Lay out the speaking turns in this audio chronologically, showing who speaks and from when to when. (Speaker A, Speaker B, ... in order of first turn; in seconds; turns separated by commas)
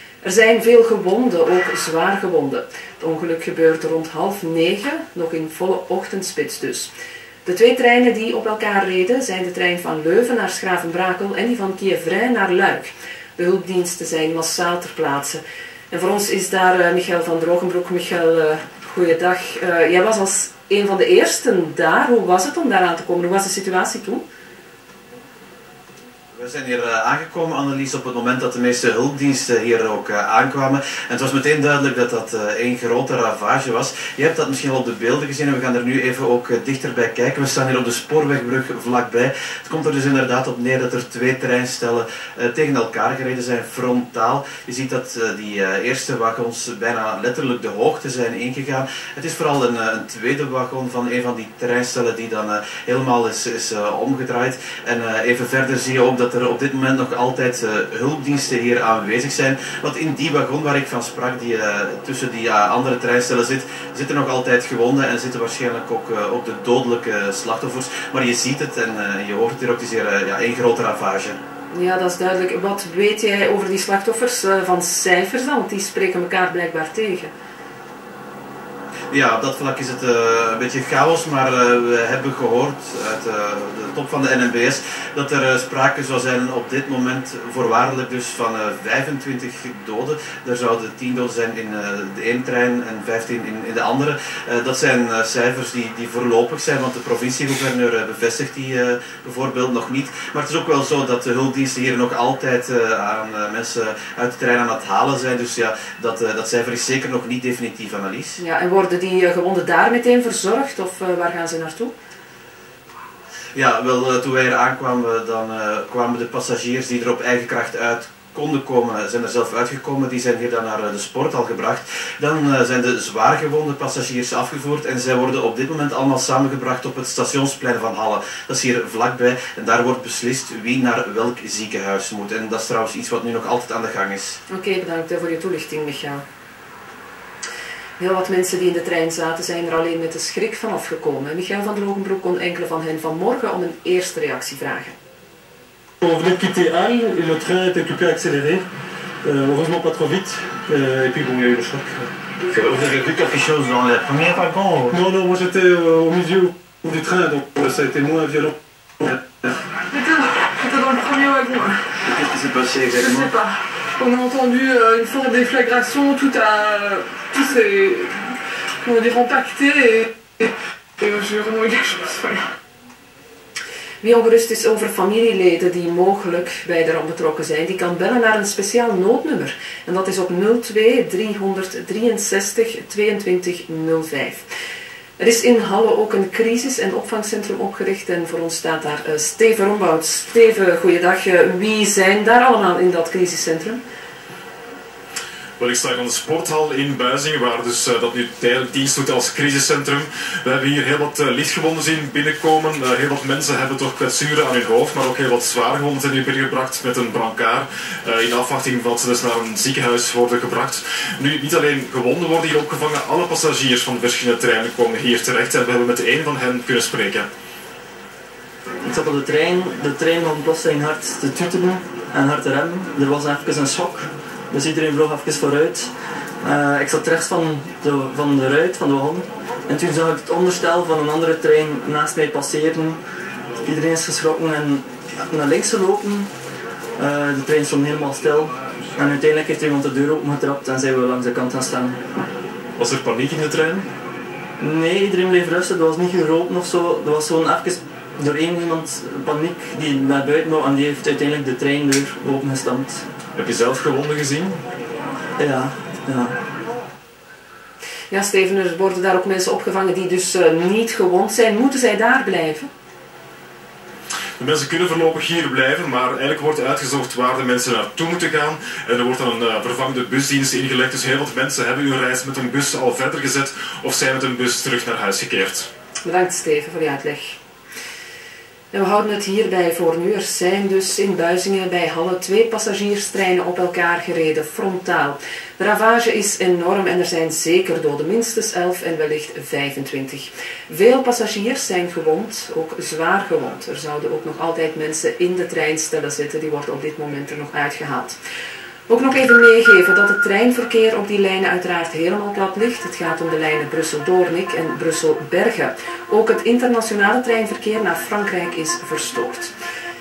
Speaker A: 0.2-6.9, Speaker A: 7.4-24.2, Speaker B: 26.3-71.4, Speaker A: 71.7-77.3, Speaker B: 79.1-108.4, Speaker A: 108.4-111.9, Speaker B: 113.5-134.4, Speaker A: 134.5-136.2, Speaker A: 138.0-145.0, Speaker C: 146.0-148.6, Speaker C: 149.2-152.1, Speaker B: 152.5-154.9, Speaker C: 154.9-159.2, Speaker D: 159.9-161.8, Speaker B: 162.0-163.3, Speaker D: 163.0-168.1, Speaker D: 168.8-170.4, Speaker D: 171.0-172.4, Speaker A: 174.0-184.4, Speaker A: 185.2-193.8, Speaker E: 195.6-217.3, Speaker F: 218.8-225.9, Speaker F: 226.4-233.0, Speaker F: 233.6-236.3, Speaker F: 236.9-242.0, Speaker E: 242.8-243.9, Speaker F: 244.6-253.1, Speaker E: 253.3-254.6, Speaker F: 255.4-256.4, Speaker A: 258.1-262.7, Speaker E: 264.4-275.7, Speaker A: 276.0-277.4, Speaker A: 278.7-298.2, Speaker A: 298.9-309.5